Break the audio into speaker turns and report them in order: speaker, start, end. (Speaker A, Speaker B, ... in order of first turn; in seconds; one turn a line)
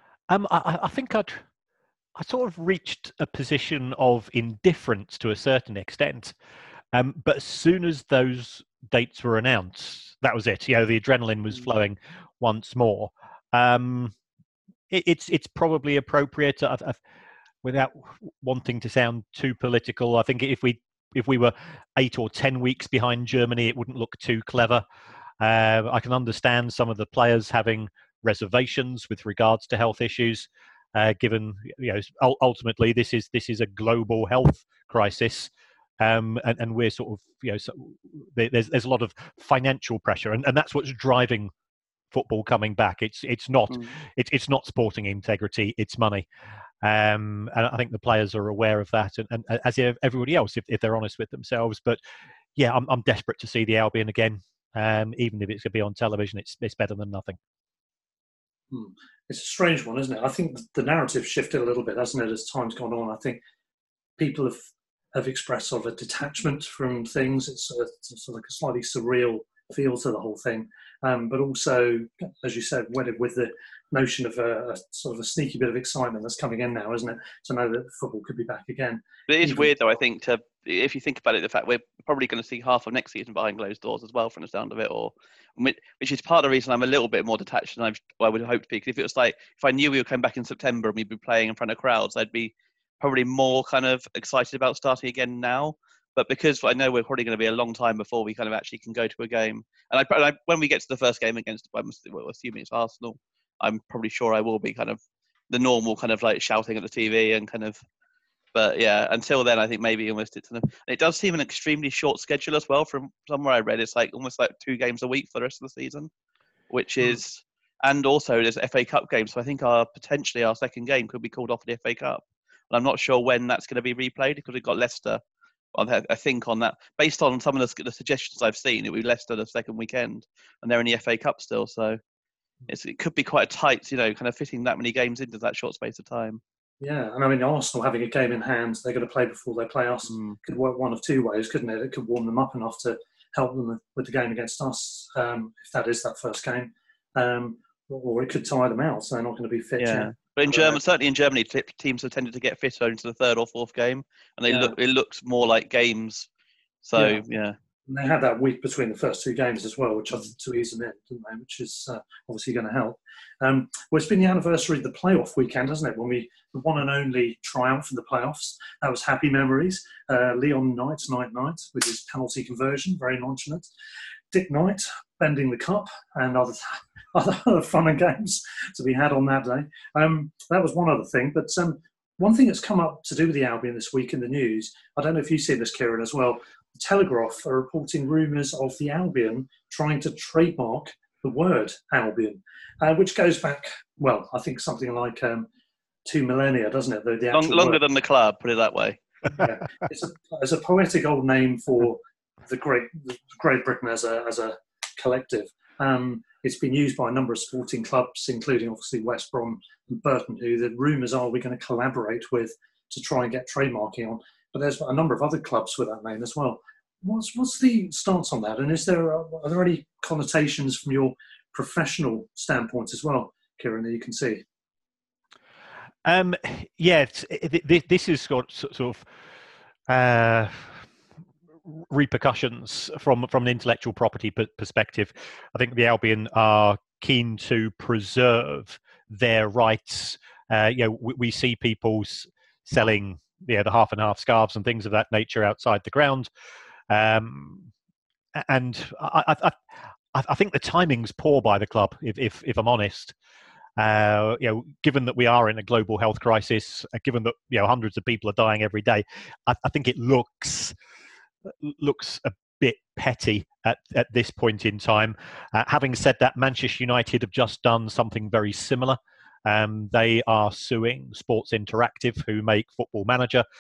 Speaker A: 0.3-1.4
Speaker A: 2.1-6.3
Speaker A: 6.9-14.1
Speaker A: 14.9-17.0
Speaker A: 17.6-24.8
Speaker A: 25.4-41.5
Speaker A: 42.1-46.3
Speaker A: 46.8-52.0
Speaker A: 52.5-57.4
Speaker B: 58.7-63.4
Speaker B: 64.2-79.7
Speaker C: 79.3-105.0
Speaker C: 105.5-107.8
Speaker C: 108.5-116.1
Speaker C: 116.7-125.2
Speaker C: 125.8-132.0
Speaker C: 132.7-136.4
Speaker B: 136.8-150.8
Speaker C: 140.1-140.4
Speaker C: 149.8-156.3
Speaker B: 154.5-154.7
Speaker C: 156.8-157.6
Speaker B: 156.9-157.2
Speaker B: 157.9-173.7
Speaker B: 174.3-195.5
Speaker B: 196.1-197.8
Speaker C: 197.3-199.0
Speaker B: 199.3-224.4
Speaker A: 226.0-229.1
Speaker A: 229.9-230.8
Speaker A: 231.7-246.3
Speaker A: 246.9-247.7
Speaker A: 248.3-249.6
Speaker A: 250.1-253.1
Speaker A: 253.8-260.8
Speaker A: 261.6-273.4